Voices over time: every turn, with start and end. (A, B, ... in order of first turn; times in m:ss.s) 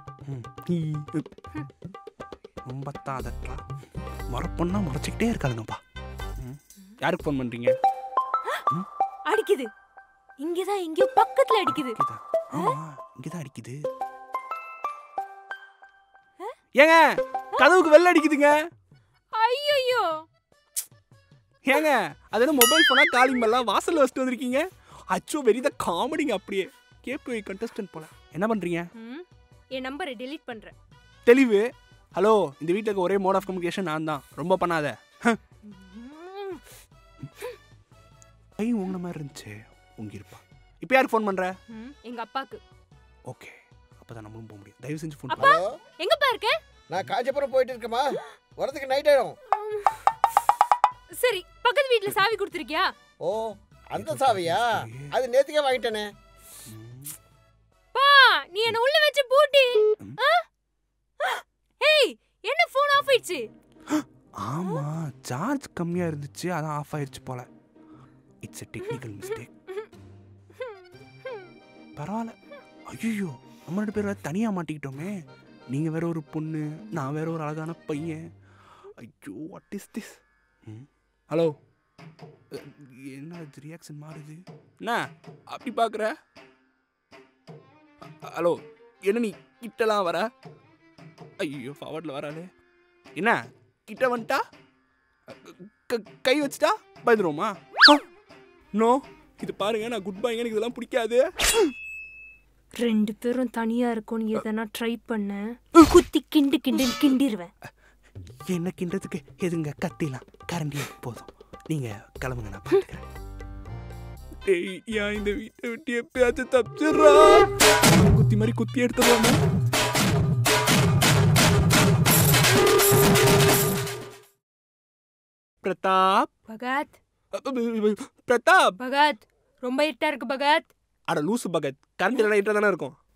0:00.2-0:01.3 A
0:02.6-0:03.6 A
0:04.3-0:05.8 A
0:06.4-0:07.8 A
0:09.2-0:09.7 B
0:10.4-0:12.0 B
0:11.7-0:13.8 A
0:16.8-0:17.0 A
0:17.6-0:18.5 A
0:19.3-0:20.2 B
0:21.6-0:28.9 A
0:29.0-0:30.7 B
0:31.2-0:35.4 A
0:35.6-0:36.6 B
0:38.6-0:41.5 A
0:41.7-0:42.6 B
0:43.3-0:45.6 A
0:45.3-0:46.5 B
0:45.4-0:45.7 C
0:46.9-0:49.4 C
0:49.5-0:50.4 B
0:51.2-0:52.9 B
0:53.2-0:56.1 C
0:53.9-0:55.1 A
0:56.7-0:57.1 A
0:57.9-1:00.4 B
1:01.2-1:03.5 B
1:03.9-1:07.5 A
1:08.4-1:09.5 A
1:12.0-1:12.3 A
1:12.9-1:15.2 A
1:15.7-1:18.2 A
1:19.0-1:21.5 A
1:22.5-1:26.1 A
1:28.0-1:30.3 A
1:31.4-1:32.5 A
1:33.2-1:34.4 A
1:35.3-1:38.0 A
1:38.7-1:41.7 A
1:42.8-1:47.5 B
1:48.5-1:53.1 A
1:54.4-1:59.4 A
2:05.6-2:06.3 A
2:06.5-2:06.9 B
2:07.3-2:08.8 A
2:08.8-2:10.7 B
2:11.1-2:13.0 A